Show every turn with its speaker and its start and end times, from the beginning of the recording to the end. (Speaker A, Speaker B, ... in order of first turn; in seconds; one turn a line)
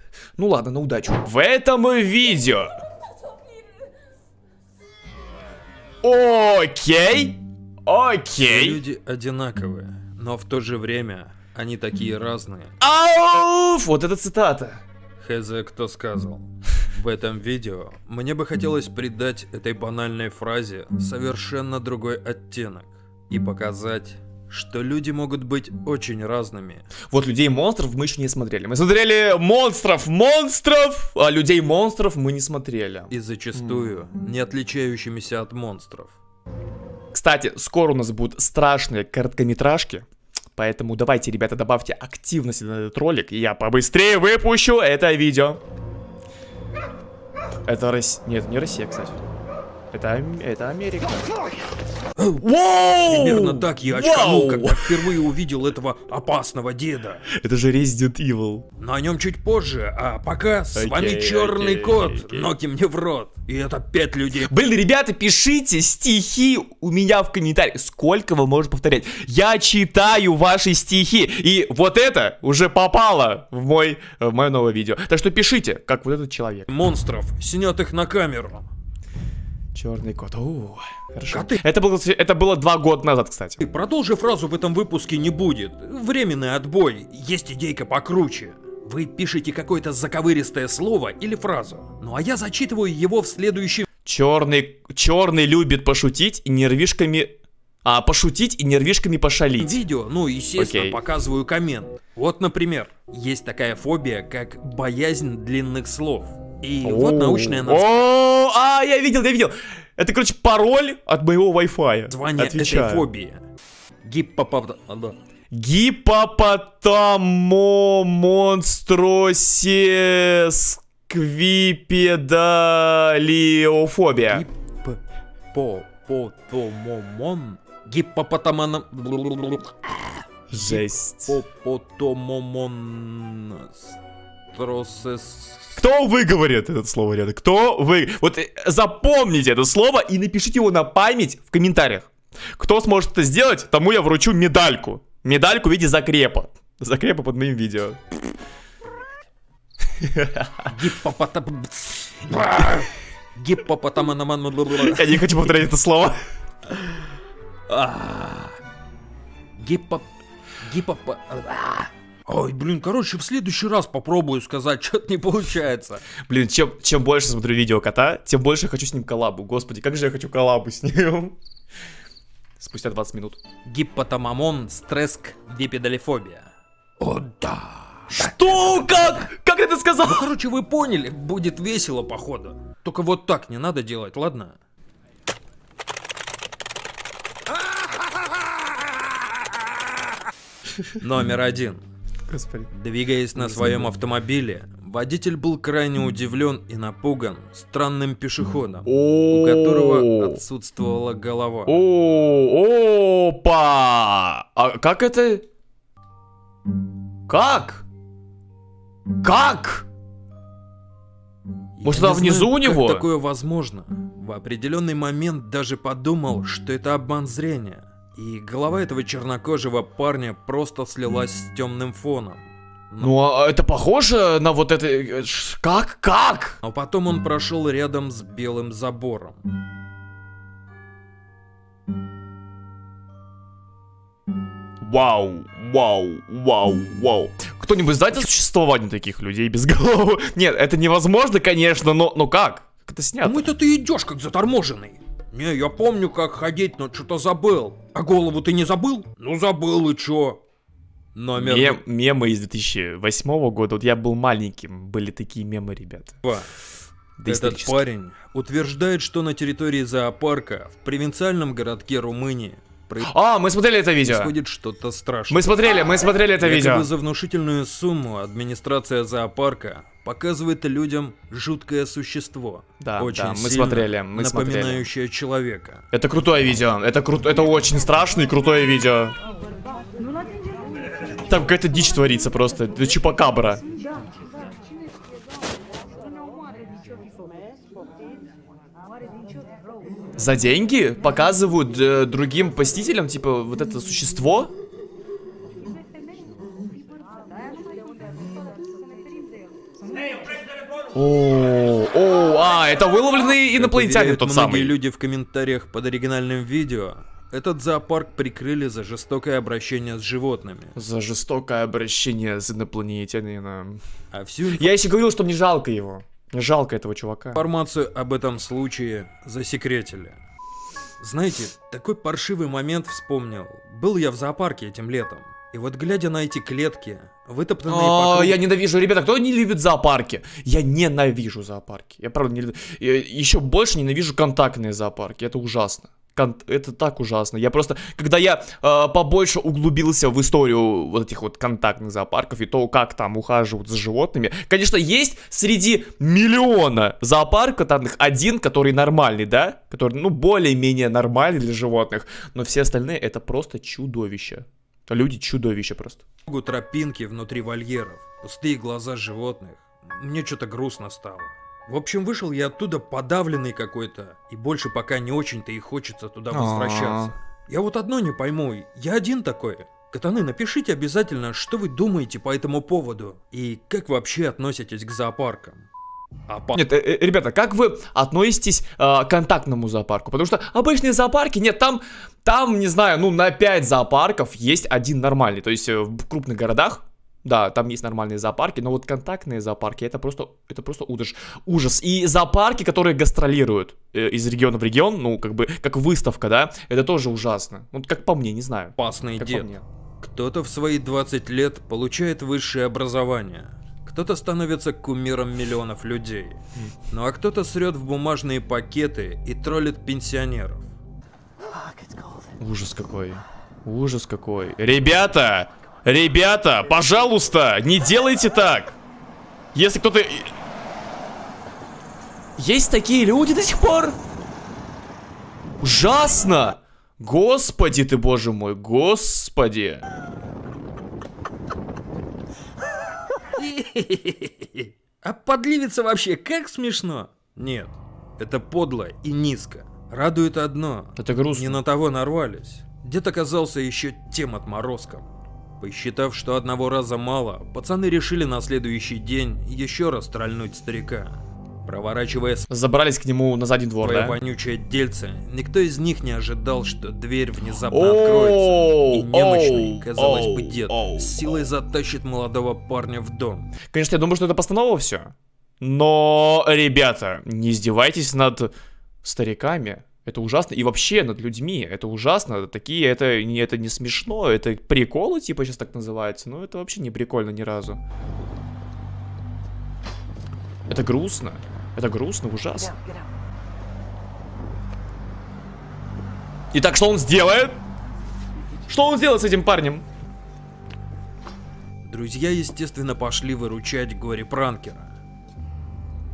Speaker A: 0.4-2.8
Speaker A: 6.0-8.8
Speaker B: 8.4-12.7
Speaker A: 12.8-14.8
Speaker B: 15.2-26.9
Speaker A: 27.1-33.9
Speaker B: 33.1-36.2
Speaker A: 37.1-45.6
Speaker A: 47.7-49.2
Speaker A: 49.9-51.3
Speaker B: 52.2-52.4
Speaker A: 52.4-55.2
Speaker B: 53.0-57.3
Speaker A: 57.3-58.7
Speaker B: 58.8-64.5
Speaker A: 60.8-62.5
Speaker A: 64.4-76.7
Speaker B: 76.7-78.7
Speaker A: 79.8-83.6
Speaker B: 81.3-81.6
Speaker B: 83.6-93.9
Speaker A: 94.0-99.8
Speaker B: 99.6-108.0
Speaker A: 100.6-101.0
Speaker A: 106.8-113.1
Speaker B: 112.1-113.4
Speaker B: 114.0-115.2
Speaker A: 115.5-124.4
Speaker B: 124.3-125.0
Speaker B: 125.5-134.0
Speaker A: 130.5-131.4
Speaker B: 134.5-135.8
Speaker A: 135.8-148.0
Speaker A: 150.0-150.7
Speaker B: 150.7-155.4
Speaker A: 154.8-156.2
Speaker B: 157.7-158.6
Speaker B: 159.6-160.1
Speaker B: 160.6-166.0
Speaker A: 166.3-171.3
Speaker A: 172.6-173.4
Speaker B: 173.7-179.2
Speaker A: 178.2-180.3
Speaker B: 180.0-184.6
Speaker B: 191.0-191.8
Speaker A: 192.3-192.7
Speaker B: 192.7-201.8
Speaker A: 193.3-194.0
Speaker A: 198.8-200.4
Speaker A: 201.7-205.4
Speaker A: 207.3-207.8
Speaker A: 209.2-209.9
Speaker B: 211.8-223.1
Speaker A: 211.8-213.1
Speaker A: 223.0-226.6
Speaker B: 226.6-229.4
Speaker A: 234.8-243.5
Speaker B: 243.2-250.4
Speaker B: 251.1-251.8
Speaker A: 251.4-256.2
Speaker B: 256.2-256.5
Speaker A: 257.2-257.8
Speaker B: 257.2-263.1
Speaker A: 263.1-264.3
Speaker B: 264.1-265.8
Speaker A: 265.3-266.9
Speaker B: 266.4-275.9
Speaker A: 272.8-274.9
Speaker A: 275.9-279.1
Speaker A: 281.2-283.6
Speaker A: 290.2-294.5
Speaker A: 300.9-304.8
Speaker B: 303.5-310.8
Speaker A: 310.8-313.8
Speaker B: 314.1-314.8
Speaker A: 314.5-317.4
Speaker B: 317.3-320.2
Speaker B: 321.0-328.4
Speaker A: 327.7-356.0
Speaker B: 356.3-375.7
Speaker A: 366.3-367.1
Speaker B: 376.3-376.6
Speaker A: 376.6-399.6
Speaker B: 398.8-410.7
Speaker A: 412.4-418.8
Speaker A: 419.5-420.3
Speaker A: 422.4-424.0
Speaker A: 425.6-429.9
Speaker B: 433.4-445.1
Speaker A: 441.0-441.6
Speaker B: 445.6-452.5
Speaker A: 452.5-454.2
Speaker B: 453.8-463.5
Speaker A: 457.7-461.2
Speaker A: 463.7-468.5
Speaker A: 469.0-477.8
Speaker A: 480.7-482.8
Speaker A: 486.5-487.6
Speaker A: 488.7-489.8
Speaker B: 491.8-494.9